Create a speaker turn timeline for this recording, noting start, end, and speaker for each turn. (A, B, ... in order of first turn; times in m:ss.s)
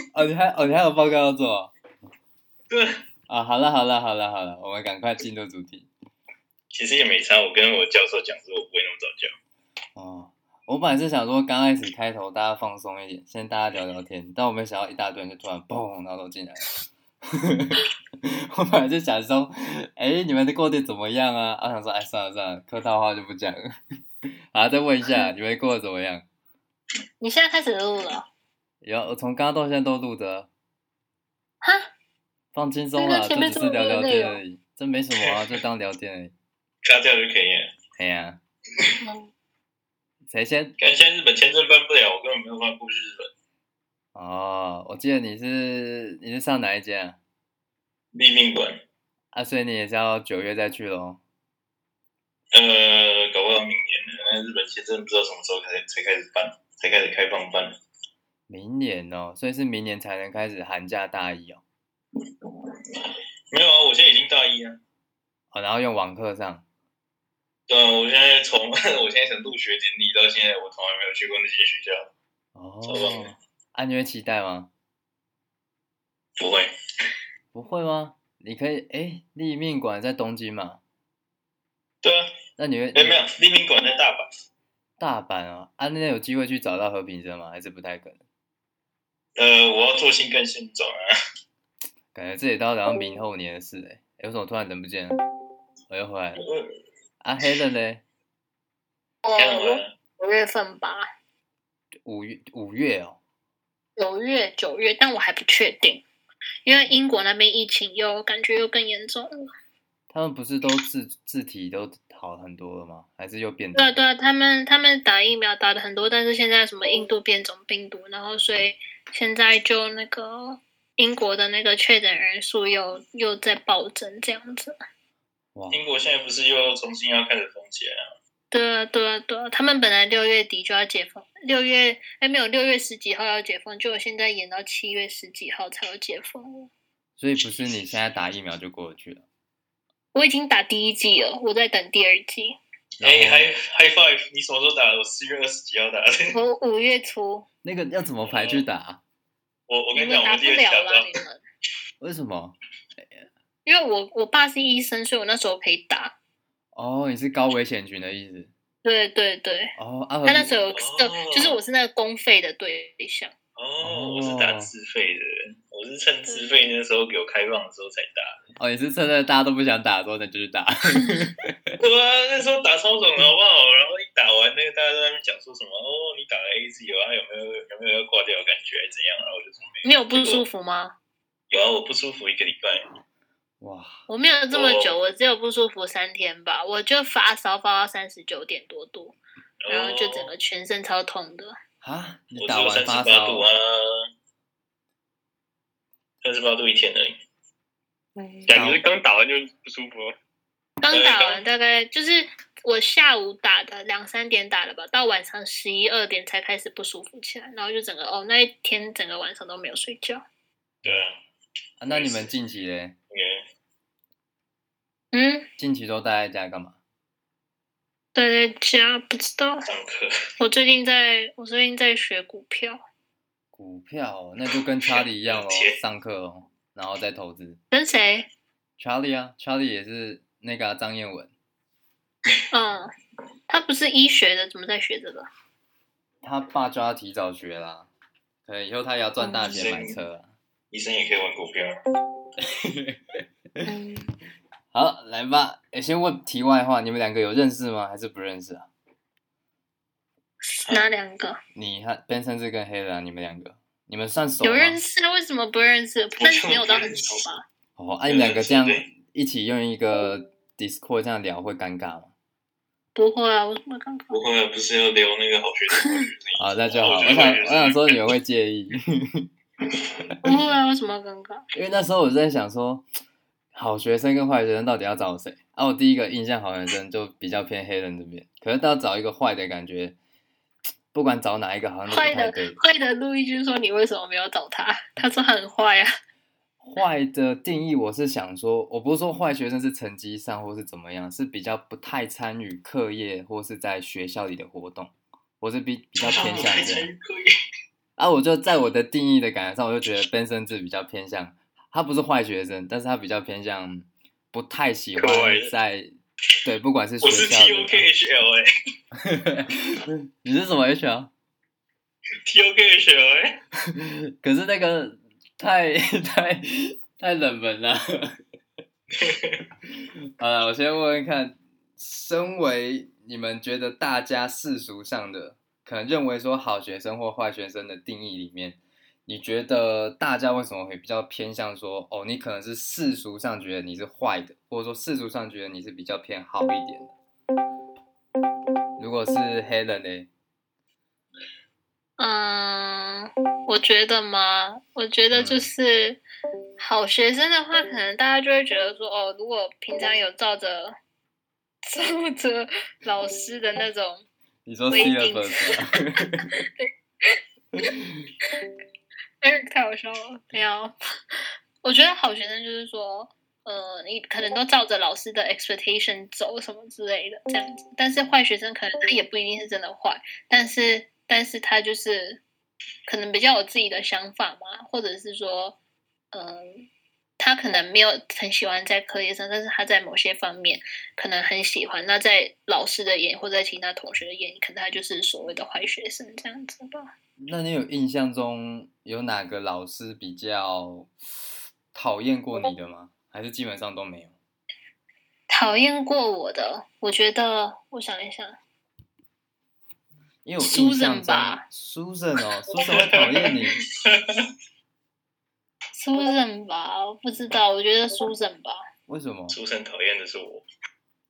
0:00.1-0:01.7 A
0:02.7-0:03.0 B
0:03.3-0:05.9 A
0:06.7-0:09.3 B
0:10.0-0:16.7 A
0:17.2-0:23.6 A
0:24.5-0:26.2 A
0:27.2-0:28.2 C
0:28.8-0:30.5 A
0:31.6-0:31.9 C
0:32.5-0:36.3 A
0:33.0-0:34.4 C
0:36.8-0:37.7 B
0:38.0-0:38.4 A
0:39.0-0:39.3 C
0:40.3-0:40.8 A
0:40.8-0:43.3 B
0:44.1-0:47.2 A
0:48.1-0:48.8 B
0:49.3-0:51.2 A
0:52.5-0:57.7 B
0:58.5-1:01.6 A
1:03.5-1:04.8 B
1:05.5-1:06.6 A
1:07.7-1:12.1 B
1:12.5-1:14.7 A
1:12.8-1:13.3 B
1:16.4-1:16.7 B
1:17.5-1:20.8 A
1:22.0-1:22.4 B
1:22.6-1:23.2 A
1:22.9-1:24.2 B
1:25.0-1:28.2 A
1:29.4-1:31.0 B
1:32.1-1:35.2 A
1:35.9-1:36.4 A
1:36.4-1:36.7 B
1:37.2-1:38.0 A
1:39.2-1:41.0 C
1:39.4-1:39.9 B
1:42.0-1:43.2 A
1:44.0-1:46.0 C
1:46.6-1:49.3 C
1:50.1-1:54.0 A
1:53.8-2:04.8 C
2:05.5-2:05.8 A
2:05.7-2:08.1 B
2:08.5-2:16.7 C
2:17.2-2:19.2 A
2:20.1-2:22.6 C
2:23.0-2:23.5 A
2:23.0-2:26.3 B
2:26.3-2:27.4 C
2:27.6-2:29.0 A
2:28.2-2:28.6 B
2:29.7-2:31.1 B
2:29.9-2:31.4 C
2:32.0-2:33.2 A
2:33.6-2:36.1 C
2:36.7-2:38.5 A
2:38.8-2:43.3 C
2:39.8-2:40.6 A
2:40.7-2:41.6 B
2:43.6-2:48.4 B
2:43.8-2:44.7 A
2:46.3-2:46.7 C
2:48.6-2:51.8 A
2:51.8-3:00.4 B
2:59.8-3:00.9 C
3:01.5-3:02.8 B
3:03.6-3:04.0 A
3:04.1-3:09.2 C
3:04.5-3:05.0 B
3:09.6-3:10.3 B
3:09.7-3:11.5 C
3:11.8-3:13.5 A
3:12.4-3:14.1 B
3:16.2-3:17.2 B
3:18.2-3:18.5 C
3:18.4-3:20.1 D
3:18.5-3:18.8 A
3:20.8-3:30.2 C
3:20.9-3:21.4 B
3:30.8-3:31.2 B
3:31.8-3:33.0 A
3:31.9-3:32.3 B
3:33.1-3:33.4 B
3:35.1-3:35.5 C
3:35.6-3:36.8 A
3:38.1-3:39.6 C
3:39.6-3:40.1 B
3:40.4-3:42.8 C
3:43.5-3:47.6 A
3:44.9-3:45.8 B
3:47.7-3:48.3 C
3:48.8-3:51.3 A
3:52.5-3:52.9 C
3:53.5-3:55.3 C
3:56.2-3:57.9 A
3:58.4-4:00.3 A
3:59.2-3:59.7 C
3:59.5-3:59.9 B
4:00.7-4:01.7 B
4:02.6-4:03.0 A
4:03.6-4:04.1 C
4:04.7-4:08.7 A
4:10.4-4:11.4 C
4:11.5-4:14.8 A
4:14.4-4:17.4 C
4:16.2-4:17.2 B
4:17.8-4:22.1 A
4:18.1-4:18.9 B
4:22.9-4:24.2 C
4:24.1-4:28.1 B
4:26.4-4:29.3 A
4:30.2-4:31.4 C
4:31.5-4:32.9 A
4:33.5-4:40.0 A
4:40.9-4:42.6 A
4:41.9-4:45.9 C
4:46.6-4:56.9 A
4:56.0-4:57.3 B
4:58.0-5:05.9 A
5:05.0-5:05.5 D
5:06.4-5:07.8 A
5:07.0-5:08.4 B
5:09.0-5:11.1 A
5:12.3-5:13.4 B
5:13.7-5:18.2 A
5:19.0-5:19.4 B
5:20.2-5:36.9 A
5:38.8-5:40.1 A
5:42.0-5:46.0 C
5:45.1-5:45.5 A
5:46.6-5:50.7 C
5:51.6-5:54.0 C
5:54.4-5:56.4 A
5:54.7-5:55.6 C
5:56.6-5:57.2 C
5:57.5-5:58.1 A
5:59.2-6:00.7 C
6:01.6-6:12.2 C
6:12.8-6:15.6 C
6:16.1-6:16.6 C
6:17.2-6:26.9 C
6:27.2-6:30.9 A
6:31.7-6:34.1 A
6:35.3-6:38.4 C
6:40.2-6:43.6 A
6:40.4-6:41.4 C
6:42.8-6:43.3 B
6:43.8-6:44.2 B
6:45.8-6:48.6 C
6:48.9-6:49.4 A
6:49.3-6:50.4 B